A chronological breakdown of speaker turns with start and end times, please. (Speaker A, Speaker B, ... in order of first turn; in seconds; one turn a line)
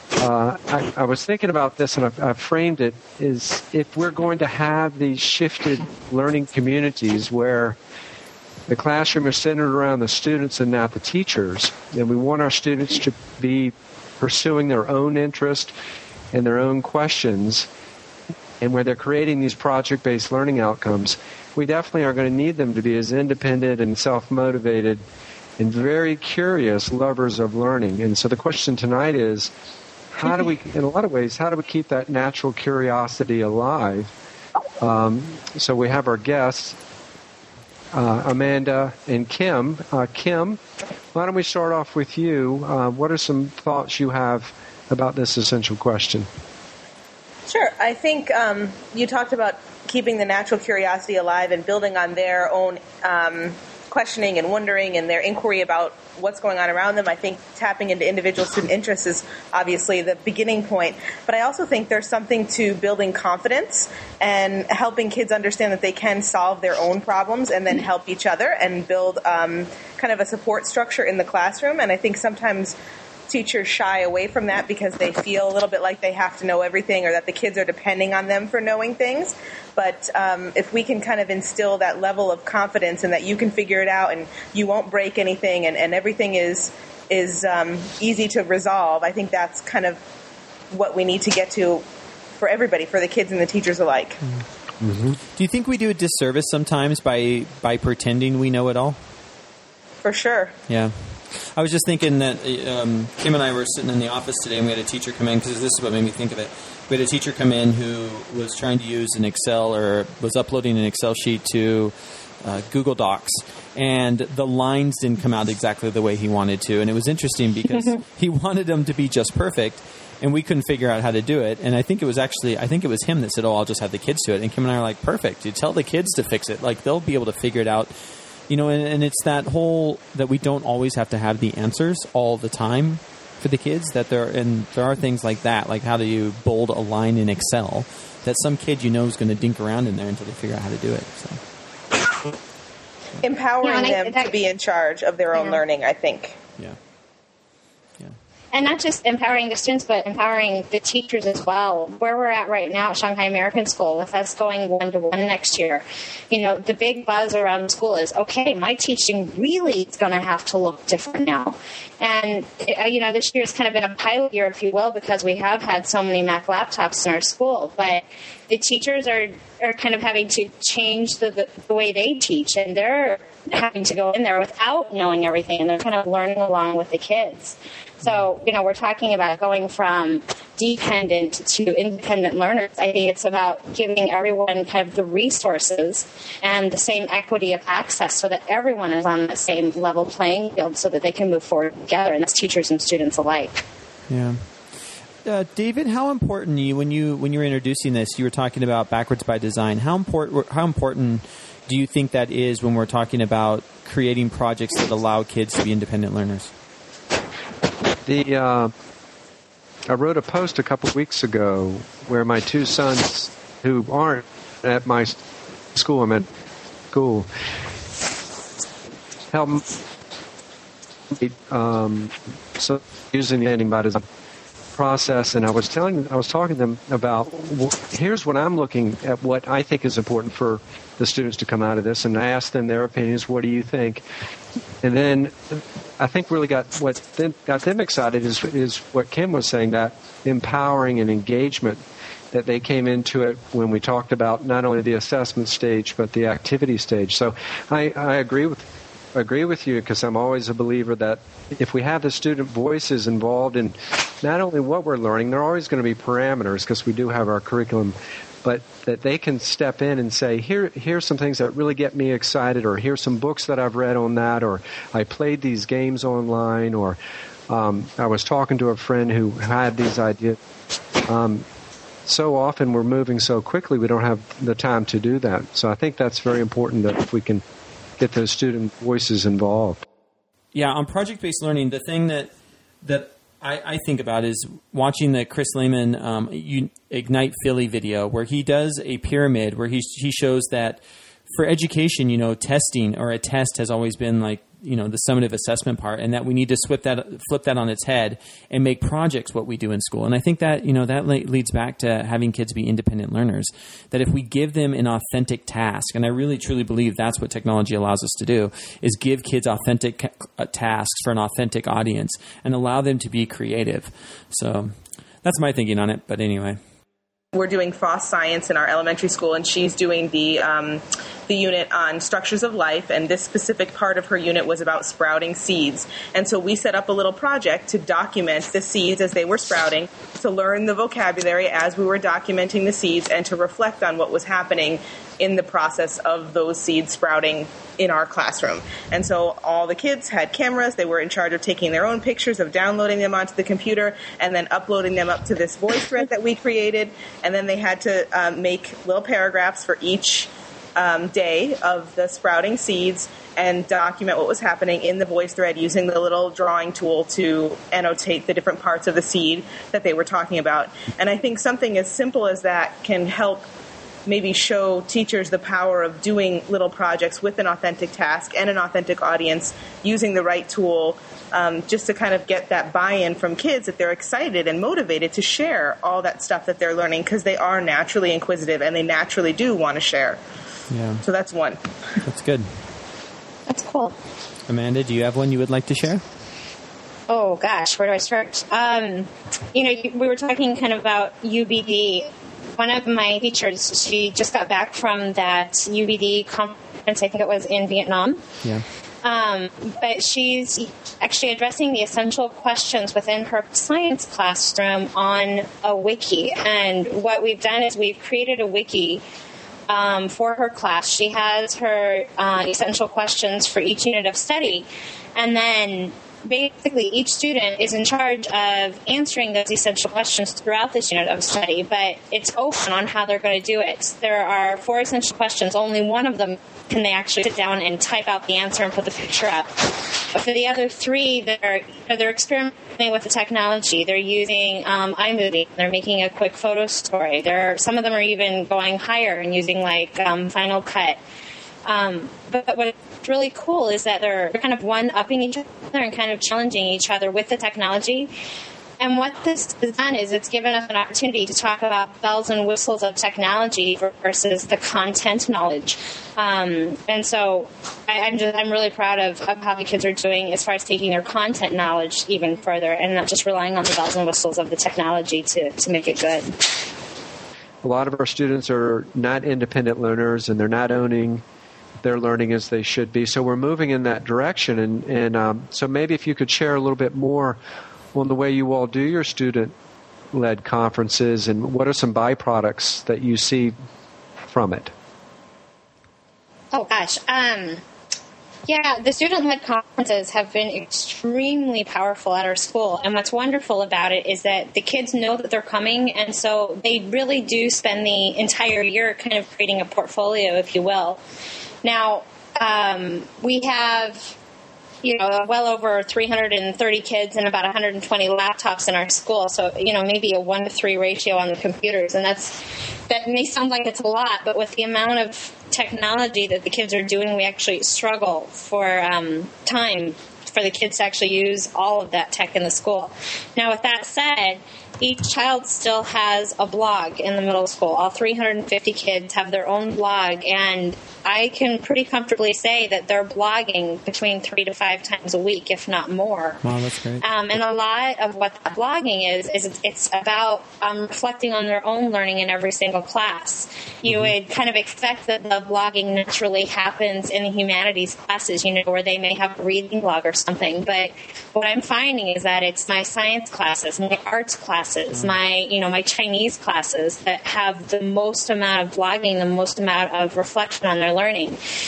Speaker A: 0.2-7.8
Speaker A: 8.7-15.7
Speaker A: 16.3-17.7
Speaker A: 18.6-25.0
Speaker A: 25.6-29.5
Speaker A: 30.1-34.1
Speaker A: 34.8-36.8
Speaker A: 37.9-40.6
Speaker A: 41.1-46.3
Speaker B: 47.5-72.8
Speaker B: 73.3-90.0
Speaker B: 90.7-91.8
Speaker B: 92.4-94.2
Speaker A: 94.8-95.2
Speaker C: 95.3-99.0
Speaker B: 100.0-100.6
Speaker C: 100.7-127.9
Speaker C: 128.5-141.4
Speaker B: 143.2-146.4
Speaker D: 143.6-144.3
Speaker D: 145.3-145.6
Speaker D: 148.5-193.6
Speaker C: 194.1-194.4
Speaker C: 195.2-206.5
Speaker A: 208.1-208.7
Speaker A: 209.9-215.2
Speaker A: 215.8-216.3
Speaker A: 216.9-217.3
Speaker A: 219.3-219.6
Speaker A: 221.1-224.0
Speaker A: 224.8-234.0
Speaker A: 234.8-241.8
Speaker A: 242.3-267.0
Speaker A: 267.5-270.4
Speaker A: 271.1-271.4
Speaker A: 272.1-277.4
Speaker A: 278.0-279.9
Speaker C: 280.6-282.3
Speaker C: 282.8-316.6
Speaker B: 317.3-363.5
Speaker B: 364.1-380.2
Speaker C: 380.7-381.0
Speaker B: 381.0-381.6
Speaker C: 382.0-382.5
Speaker D: 383.5-384.0
Speaker C: 384.5-386.0
Speaker D: 387.1-398.2
Speaker D: 399.0-409.0
Speaker D: 409.7-441.0
Speaker D: 441.6-448.1
Speaker D: 448.8-466.4
Speaker A: 467.6-471.2
Speaker A: 471.8-477.4
Speaker A: 477.9-479.6
Speaker A: 480.1-483.6
Speaker A: 484.3-484.7
Speaker D: 486.5-487.6
Speaker D: 488.5-501.0
Speaker D: 501.6-504.1
Speaker D: 504.8-536.4
Speaker C: 536.4-537.0
Speaker D: 537.0-561.4
Speaker C: 543.9-544.1